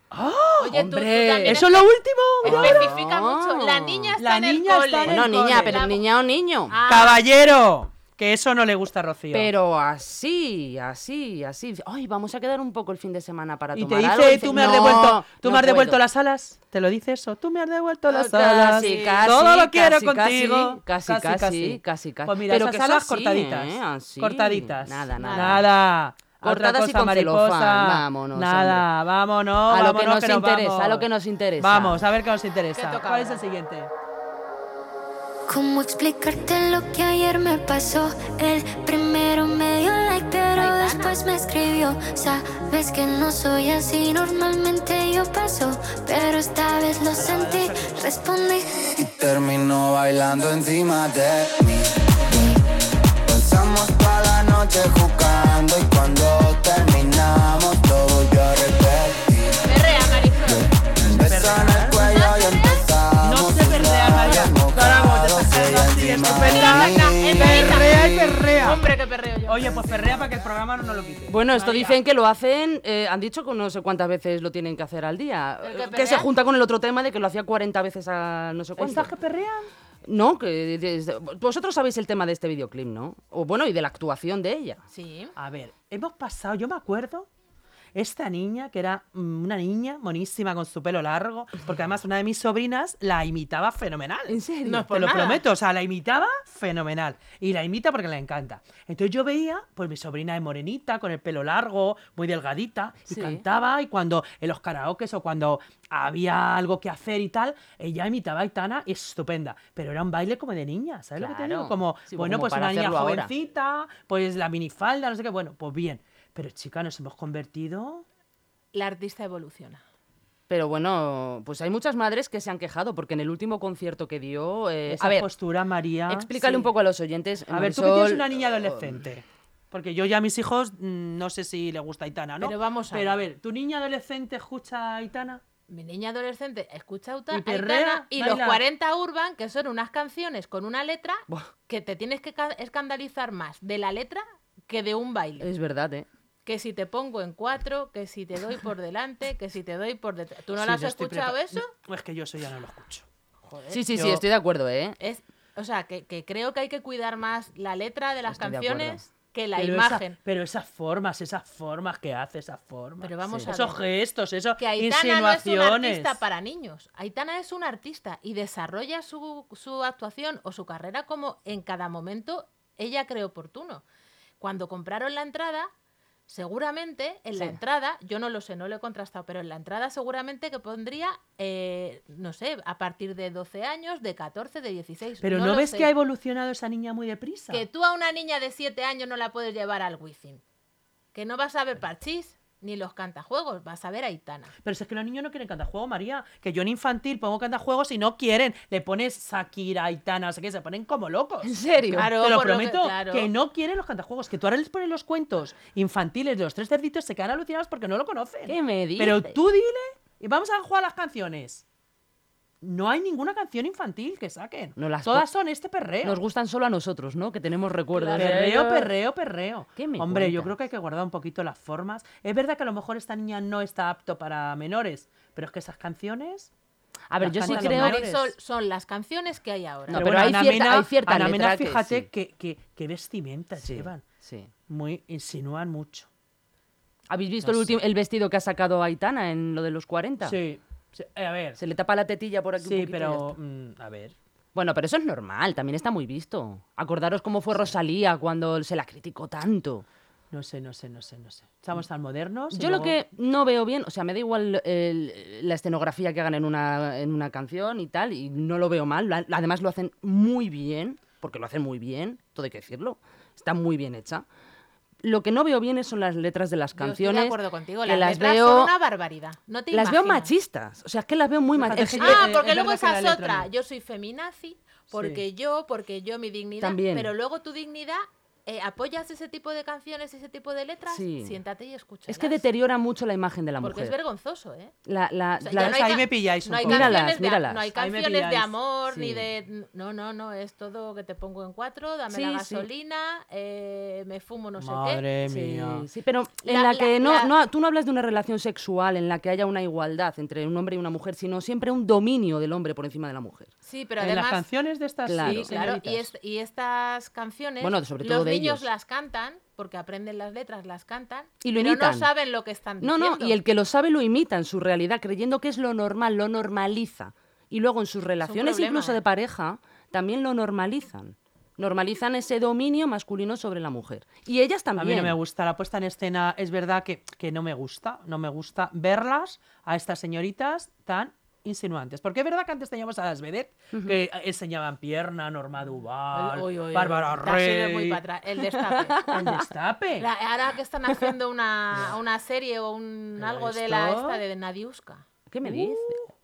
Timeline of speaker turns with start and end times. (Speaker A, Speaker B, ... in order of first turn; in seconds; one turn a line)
Speaker A: 0.1-2.9
Speaker B: 0.6-6.1
Speaker C: 0.7-1.6
Speaker C: 2.4-4.2
Speaker A: 4.2-5.8
Speaker C: 5.0-6.8
Speaker B: 6.7-7.2
Speaker A: 6.9-9.5
Speaker C: 9.3-16.0
Speaker A: 13.7-31.1
Speaker C: 18.1-25.7
Speaker B: 25.2-25.6
Speaker C: 26.4-28.9
Speaker C: 29.7-32.0
Speaker A: 31.6-33.9
Speaker B: 32.7-33.4
Speaker D: 35.5-48.9
Speaker B: 40.5-41.2
Speaker A: 47.1-48.1
Speaker E: 49.0-51.9
Speaker E: 53.2-59.6
Speaker B: 59.6-60.7
Speaker E: 60.5-68.2
Speaker A: 61.1-62.0
Speaker B: 61.9-62.9
Speaker A: 63.2-68.8
Speaker B: 66.4-69.6
Speaker A: 69.5-72.0
Speaker C: 71.3-79.1
Speaker B: 75.6-76.3
Speaker A: 78.8-79.7
Speaker C: 80.0-84.8
Speaker B: 84.9-85.3
Speaker A: 85.3-87.3
Speaker A: 87.9-94.4
Speaker C: 94.3-94.9
Speaker B: 94.6-95.5
Speaker A: 94.9-118.0
Speaker C: 103.1-103.4
Speaker C: 111.2-113.3
Speaker B: 118.7-119.8
Speaker C: 120.5-125.3
Speaker A: 124.9-126.7
Speaker C: 126.1-129.0
Speaker A: 127.5-135.4
Speaker B: 132.4-133.2
Speaker B: 135.7-145.5
Speaker A: 137.3-138.6
Speaker C: 145.4-146.1
Speaker B: 146.4-151.7
Speaker A: 150.6-153.0
Speaker B: 153.4-153.9
Speaker C: 153.7-155.0
Speaker A: 153.9-154.2
Speaker B: 155.0-160.2
Speaker C: 158.3-159.0
Speaker A: 159.6-166.2
Speaker B: 163.0-163.8
Speaker B: 164.6-173.8
Speaker B: 174.4-175.7
Speaker B: 176.3-185.9
Speaker A: 185.2-187.6
Speaker B: 187.5-190.4
Speaker B: 191.1-194.5
Speaker A: 194.6-211.6
Speaker C: 201.4-202.1
Speaker B: 201.9-203.3
Speaker C: 208.5-209.4
Speaker A: 212.6-216.2
Speaker C: 214.8-215.3
Speaker C: 216.0-218.9
Speaker B: 217.9-218.5
Speaker A: 218.1-226.5
Speaker C: 219.8-220.5
Speaker C: 227.1-228.1
Speaker A: 227.2-228.3
Speaker B: 227.4-230.4
Speaker C: 229.9-232.1
Speaker A: 229.9-234.0
Speaker C: 233.6-234.5
Speaker A: 234.7-236.1
Speaker C: 237.1-240.4
Speaker A: 237.4-237.7
Speaker A: 240.2-241.6
Speaker C: 241.6-243.3
Speaker A: 242.6-244.1
Speaker C: 244.5-249.8
Speaker A: 250.3-253.0
Speaker C: 252.5-264.2
Speaker C: 265.0-268.7
Speaker B: 266.8-270.3
Speaker C: 269.7-272.3
Speaker A: 271.6-273.5
Speaker B: 272.0-282.4
Speaker A: 274.9-275.2
Speaker C: 276.6-277.1
Speaker C: 280.9-281.4
Speaker C: 282.1-283.9
Speaker B: 283.6-284.7
Speaker C: 284.9-286.0
Speaker B: 285.4-295.0
Speaker A: 285.5-287.0
Speaker C: 286.6-287.7
Speaker A: 287.7-288.5
Speaker C: 288.9-289.2
Speaker C: 292.1-292.7
Speaker A: 294.6-295.9
Speaker C: 295.2-303.5
Speaker B: 296.4-297.3
Speaker B: 303.6-304.5
Speaker A: 304.0-305.8
Speaker C: 305.1-306.1
Speaker B: 305.2-313.4
Speaker C: 307.6-308.7
Speaker C: 311.4-312.1
Speaker C: 312.8-325.2
Speaker B: 318.2-319.0
Speaker A: 324.8-338.0
Speaker B: 336.1-339.1
Speaker C: 338.9-339.4
Speaker A: 339.1-340.1
Speaker B: 340.0-345.0
Speaker A: 343.2-344.2
Speaker C: 345.3-346.0
Speaker A: 345.4-346.1